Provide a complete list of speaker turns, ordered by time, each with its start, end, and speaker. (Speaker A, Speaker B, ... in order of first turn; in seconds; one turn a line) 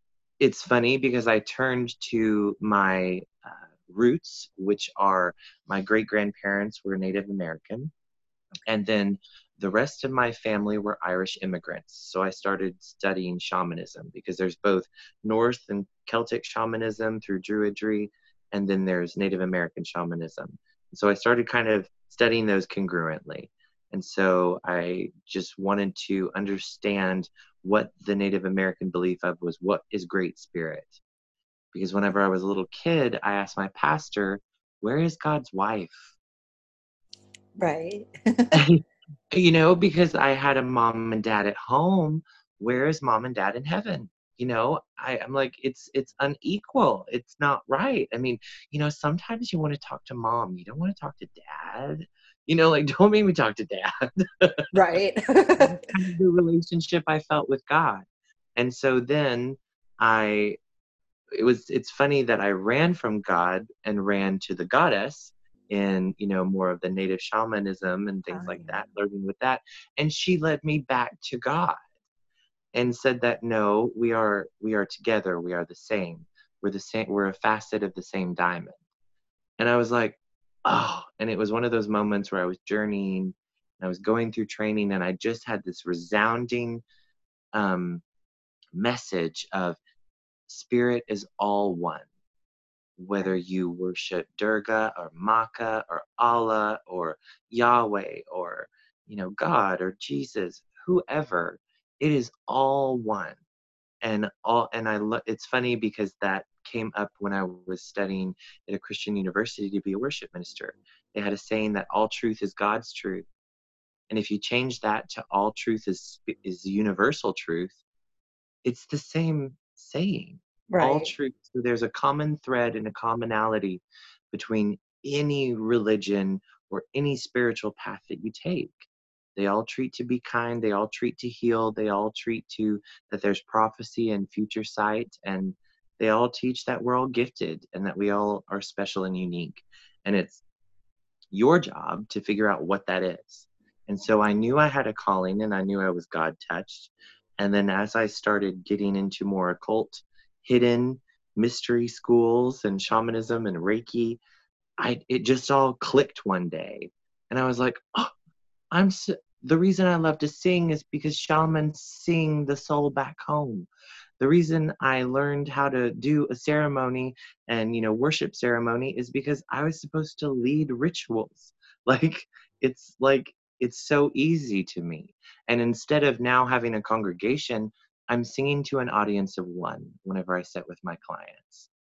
Speaker A: 0.4-7.9
Speaker A: 8.7-31.0
Speaker A: 31.7-36.1
Speaker B: 37.6-38.6
Speaker A: 38.5-54.6
Speaker B: 54.7-55.9
Speaker A: 55.6-60.6
Speaker A: 61.3-71.8
Speaker B: 68.3-68.8
Speaker A: 72.7-78.8
Speaker A: 79.6-86.8
Speaker A: 87.5-88.0
Speaker A: 88.8-89.8
Speaker A: 90.5-92.1
Speaker A: 93.0-103.4
Speaker A: 104.0-113.3
Speaker A: 114.1-117.8
Speaker A: 118.6-140.4
Speaker B: 120.7-121.1
Speaker A: 141.3-154.2
Speaker A: 154.8-158.1
Speaker A: 158.7-163.7
Speaker A: 164.2-181.7